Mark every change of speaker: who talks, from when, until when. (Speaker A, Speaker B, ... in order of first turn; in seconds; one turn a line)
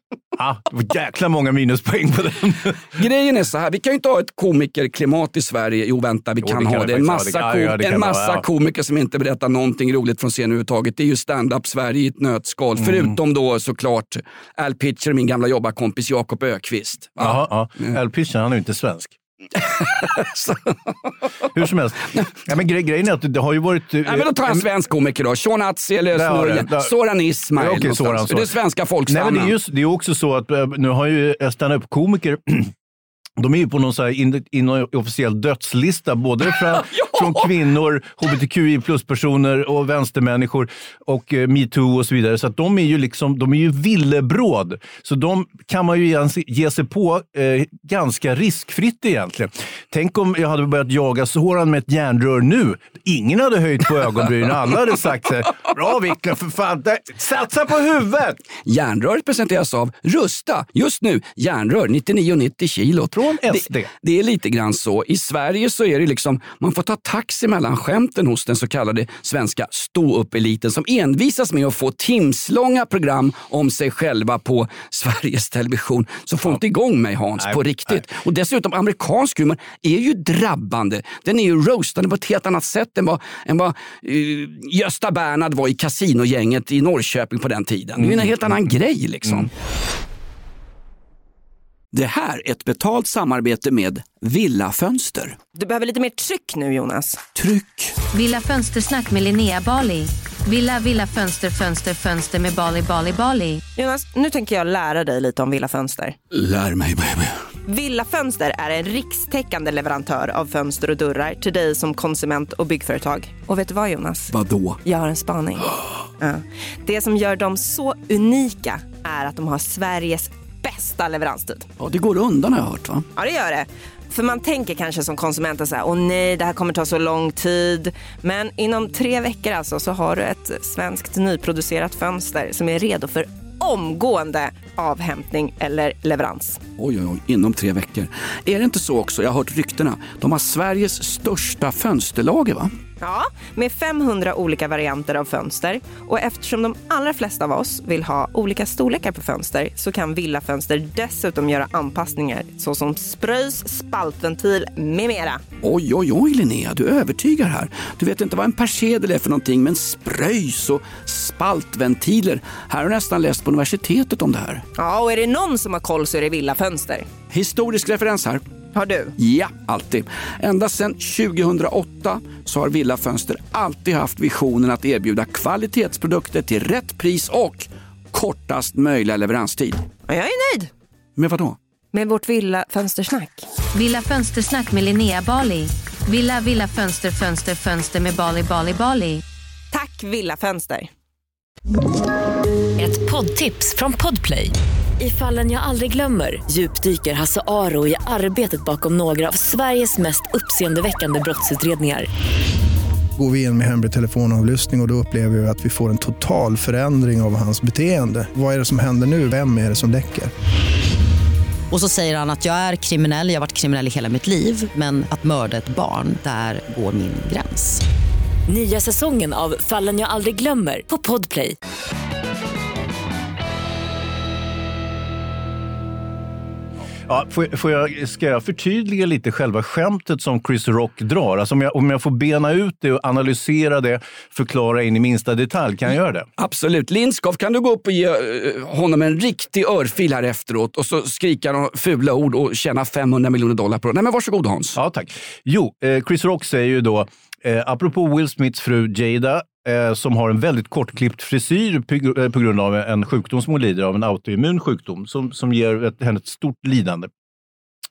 Speaker A: 0.4-3.0
Speaker B: 3.0-17.9
Speaker A: 6.4-8.4
Speaker A: 12.8-13.2
Speaker A: 17.2-19.2
Speaker B: 19.6-20.9
Speaker A: 21.5-24.6
Speaker B: 24.1-29.5
Speaker A: 26.1-26.9
Speaker A: 27.6-28.5
Speaker A: 29.1-32.7
Speaker A: 33.4-58.4
Speaker B: 36.7-37.5
Speaker B: 58.6-89.5
Speaker A: 63.1-63.9
Speaker A: 77.4-78.0
Speaker A: 88.0-88.3
Speaker B: 91.9-95.4
Speaker C: 95.5-97.2
Speaker B: 97.4-97.9
Speaker D: 98.1-103.6
Speaker C: 103.8-106.2
Speaker B: 106.3-107.3
Speaker C: 107.7-114.3
Speaker B: 114.3-114.8
Speaker C: 114.8-121.7
Speaker B: 121.8-123.1
Speaker C: 123.2-136.6
Speaker B: 136.8-142.7
Speaker C: 143.0-155.4
Speaker B: 155.6-164.6
Speaker C: 164.8-167.1
Speaker B: 167.3-168.4
Speaker C: 168.7-169.1
Speaker B: 169.2-179.8
Speaker C: 180.1-180.7
Speaker B: 181.2-181.6
Speaker C: 181.9-183.4
Speaker D: 183.7-189.2
Speaker C: 189.7-190.9
Speaker E: 192.8-202.1
Speaker F: 203.2-210.3
Speaker G: 211.7-217.8
Speaker E: 218.5-221.6
Speaker A: 227.1-236.3
Speaker B: 236.4-244.8
Speaker A: 244.8-257.1